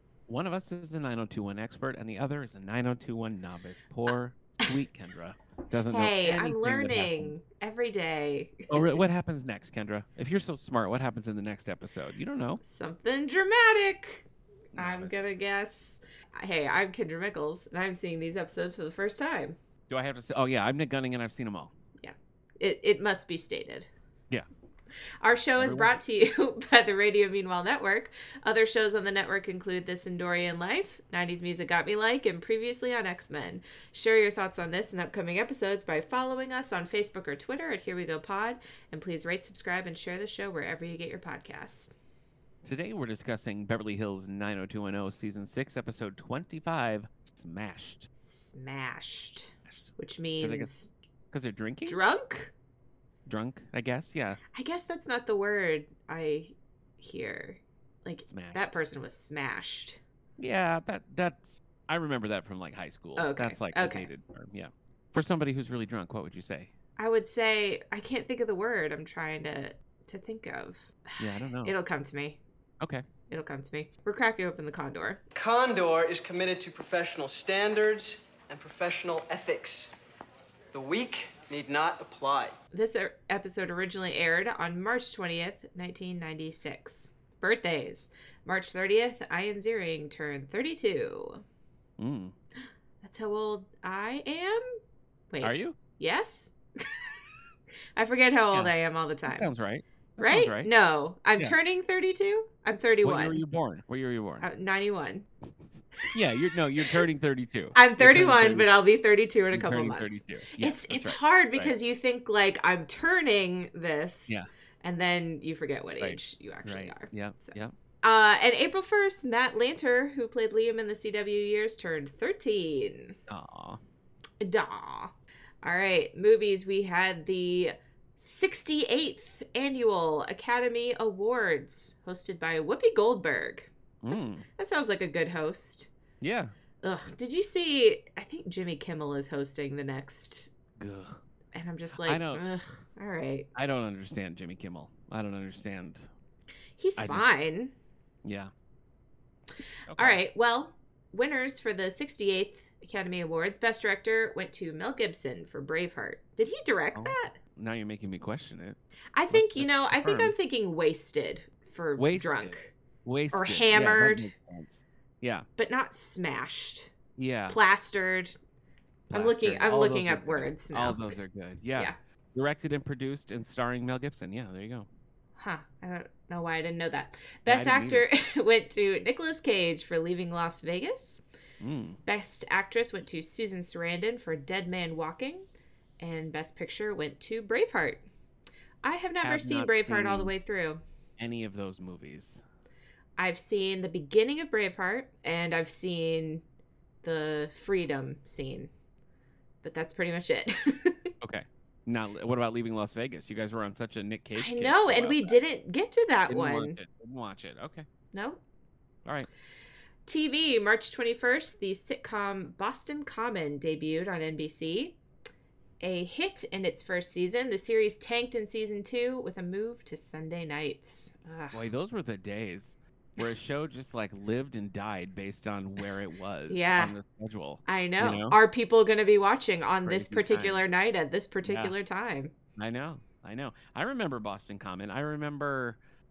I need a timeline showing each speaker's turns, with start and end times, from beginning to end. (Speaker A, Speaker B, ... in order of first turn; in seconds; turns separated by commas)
Speaker A: 0.3-7.3, Speaker B: 5.9-8.9, Speaker A: 8.7-12.6, Speaker B: 12.6-19.6, Speaker A: 14.8-15.2, Speaker A: 19.9-21.7, Speaker B: 22.0-23.9, Speaker B: 25.2-41.9, Speaker A: 25.6-25.9, Speaker A: 42.6-48.1, Speaker B: 48.2-50.9, Speaker A: 50.4-50.7, Speaker A: 51.3-52.0, Speaker B: 51.9-52.5, Speaker A: 53.2-54.4, Speaker B: 54.5-60.0, Speaker A: 58.3-58.8, Speaker A: 60.4-66.7, Speaker B: 63.2-64.1, Speaker B: 67.0-72.4, Speaker A: 71.2-71.7, Speaker B: 73.3-75.2, Speaker C: 75.3-79.9, Speaker C: 80.7-82.6, Speaker B: 82.7-91.4, Speaker A: 92.0-92.3, Speaker B: 93.0-94.6, Speaker B: 95.3-97.1, Speaker A: 95.4-95.8, Speaker B: 98.0-99.5, Speaker A: 99.3-100.7, Speaker B: 100.2-103.4, Speaker A: 103.0-104.5, Speaker B: 104.4-105.3, Speaker A: 106.1-108.7, Speaker B: 107.7-123.2, Speaker A: 109.5-111.7, Speaker A: 116.0-117.7, Speaker A: 123.3-123.8, Speaker B: 124.4-135.9, Speaker A: 134.0-134.4, Speaker A: 136.2-136.5, Speaker B: 136.8-140.5, Speaker A: 140.8-141.2, Speaker B: 141.6-143.5, Speaker A: 142.0-142.4, Speaker A: 143.6-146.1, Speaker B: 146.8-147.7, Speaker A: 147.0-147.3, Speaker A: 148.2-148.5, Speaker A: 149.9-150.2, Speaker B: 149.9-157.4, Speaker A: 156.9-158.8, Speaker B: 159.2-162.7, Speaker A: 159.3-160.3, Speaker A: 162.0-165.5, Speaker B: 163.3-164.3, Speaker B: 165.6-166.9, Speaker A: 167.2-167.6, Speaker B: 167.5-168.3, Speaker A: 169.1-174.9, Speaker B: 169.1-171.1, Speaker B: 175.4-181.2, Speaker A: 177.5-178.1, Speaker A: 181.6-182.0, Speaker B: 182.1-185.5, Speaker B: 186.0-188.0, Speaker B: 188.8-190.8, Speaker A: 189.2-190.3, Speaker A: 191.2-192.4, Speaker B: 193.2-196.4, Speaker B: 197.0-198.7, Speaker B: 199.6-201.1, Speaker A: 201.2-205.4, Speaker B: 204.4-206.8, Speaker A: 206.3-207.9, Speaker B: 208.1-208.4, Speaker B: 210.1-215.0, Speaker B: 215.8-221.7, Speaker A: 221.5-228.4, Speaker B: 226.5-227.0, Speaker B: 227.7-232.3, Speaker A: 229.8-230.6, Speaker A: 231.4-231.7, Speaker A: 232.6-235.8